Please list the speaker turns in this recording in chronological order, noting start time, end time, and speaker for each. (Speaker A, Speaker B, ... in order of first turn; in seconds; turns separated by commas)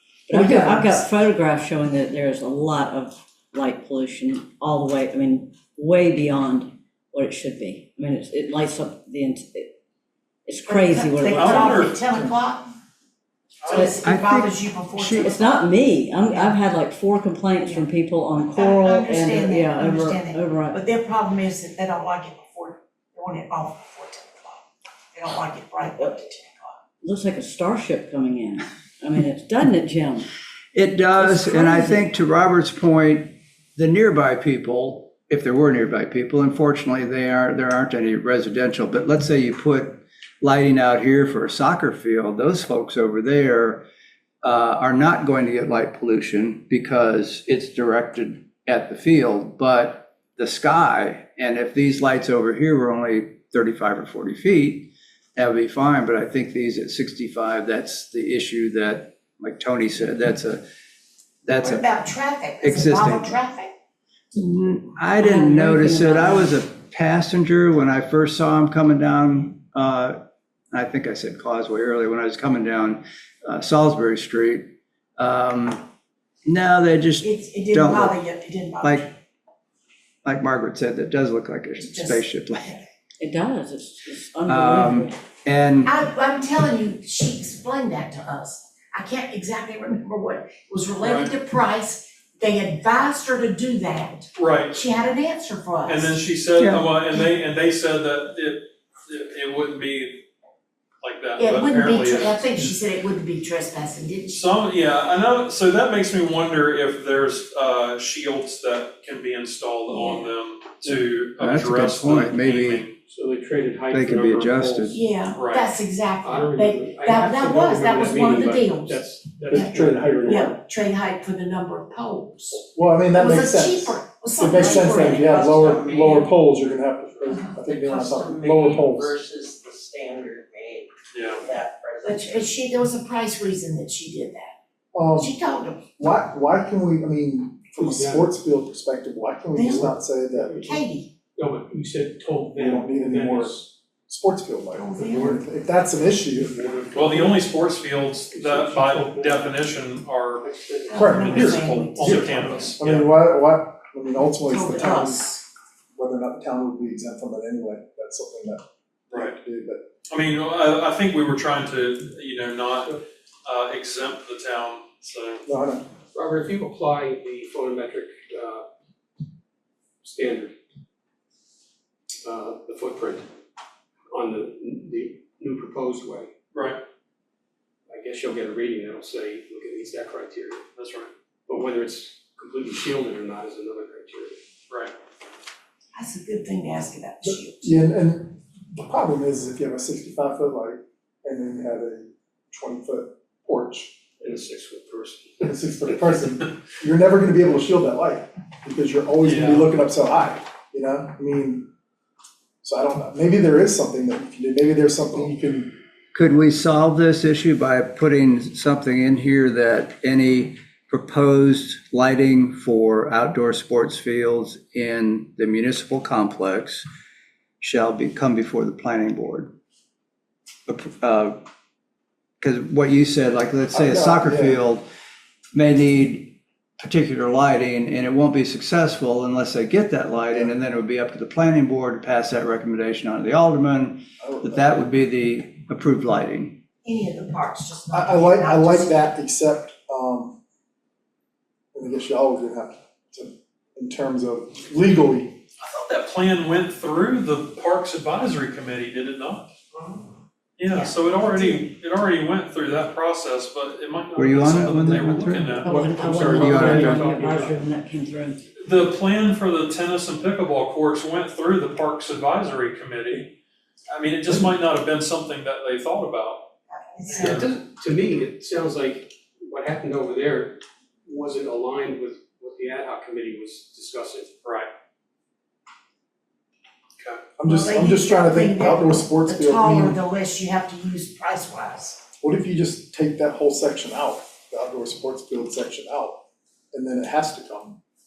Speaker A: 0.3-9.7, Speaker B: 0.3-1.0, Speaker A: 10.4-12.0, Speaker C: 10.7-12.7, Speaker D: 11.2-12.0, Speaker D: 13.6-14.0, Speaker C: 13.7-15.7, Speaker E: 14.0-14.5, Speaker A: 15.0-20.8, Speaker C: 16.3-16.6, Speaker C: 18.4-26.8, Speaker A: 27.0-30.3, Speaker E: 30.7-43.8, Speaker A: 31.2-32.0, Speaker E: 44.4-60.6, Speaker E: 61.4-61.8, Speaker C: 61.6-63.7, Speaker E: 62.6-63.4, Speaker E: 64.3-70.2, Speaker A: 65.2-66.6, Speaker E: 70.7-75.8, Speaker E: 76.5-78.2, Speaker C: 77.2-79.1, Speaker E: 80.2-82.8, Speaker C: 81.8-82.3, Speaker A: 83.2-85.2, Speaker E: 84.5-85.9, Speaker C: 85.8-96.2, Speaker D: 91.0-91.3, Speaker D: 94.3-94.8, Speaker D: 95.8-100.2, Speaker D: 101.0-102.7, Speaker C: 101.4-104.5, Speaker D: 104.3-112.9, Speaker C: 109.9-110.3, Speaker E: 111.4-112.8, Speaker F: 113.0-115.0, Speaker E: 113.9-115.0, Speaker C: 114.8-122.6, Speaker D: 115.3-115.7, Speaker F: 116.2-120.6, Speaker B: 119.5-120.5, Speaker B: 122.7-129.2, Speaker C: 123.1-126.3, Speaker G: 125.7-125.9, Speaker G: 127.7-132.2, Speaker D: 131.1-131.4, Speaker C: 132.0-134.5, Speaker B: 134.9-135.3, Speaker C: 135.1-135.9, Speaker B: 136.0-140.6, Speaker F: 137.8-138.3, Speaker C: 139.5-140.0, Speaker F: 140.3-140.8, Speaker C: 140.6-141.1, Speaker F: 141.3-143.7, Speaker B: 142.6-146.6, Speaker C: 144.7-145.4, Speaker F: 145.0-145.4, Speaker F: 146.3-147.8, Speaker D: 146.9-150.4, Speaker F: 148.3-149.6, Speaker F: 150.4-151.8, Speaker C: 150.9-152.7, Speaker B: 150.9-155.3, Speaker D: 151.3-153.1, Speaker C: 154.5-155.4, Speaker B: 155.9-159.8, Speaker D: 160.1-165.4, Speaker B: 165.4-165.9, Speaker F: 166.1-168.7, Speaker F: 170.0-170.5, Speaker F: 172.2-173.2, Speaker F: 174.1-176.3, Speaker D: 176.5-176.8, Speaker F: 177.9-180.7, Speaker D: 180.8-181.1, Speaker F: 181.5-184.4, Speaker C: 185.9-187.8, Speaker B: 187.2-193.9, Speaker F: 194.2-196.3, Speaker B: 195.4-201.7, Speaker D: 199.2-199.7, Speaker B: 202.6-205.7, Speaker E: 206.1-216.8, Speaker E: 217.6-219.5, Speaker E: 220.7-221.4, Speaker E: 222.4-224.8, Speaker B: 223.7-224.6, Speaker E: 225.5-236.6, Speaker B: 234.2-234.8, Speaker C: 236.8-239.1, Speaker B: 237.9-240.4, Speaker B: 241.7-245.4, Speaker D: 245.6-249.5, Speaker D: 250.6-256.9, Speaker C: 250.7-251.7, Speaker E: 254.2-255.6, Speaker C: 255.6-256.3, Speaker A: 255.6-258.4, Speaker F: 255.7-257.6, Speaker E: 256.4-257.0, Speaker D: 258.6-263.3, Speaker D: 263.9-266.4, Speaker C: 266.7-267.4, Speaker D: 267.1-267.5, Speaker F: 267.1-274.4, Speaker D: 274.4-274.7, Speaker B: 277.4-280.0, Speaker C: 277.4-282.0, Speaker B: 282.2-286.2, Speaker B: 286.7-287.8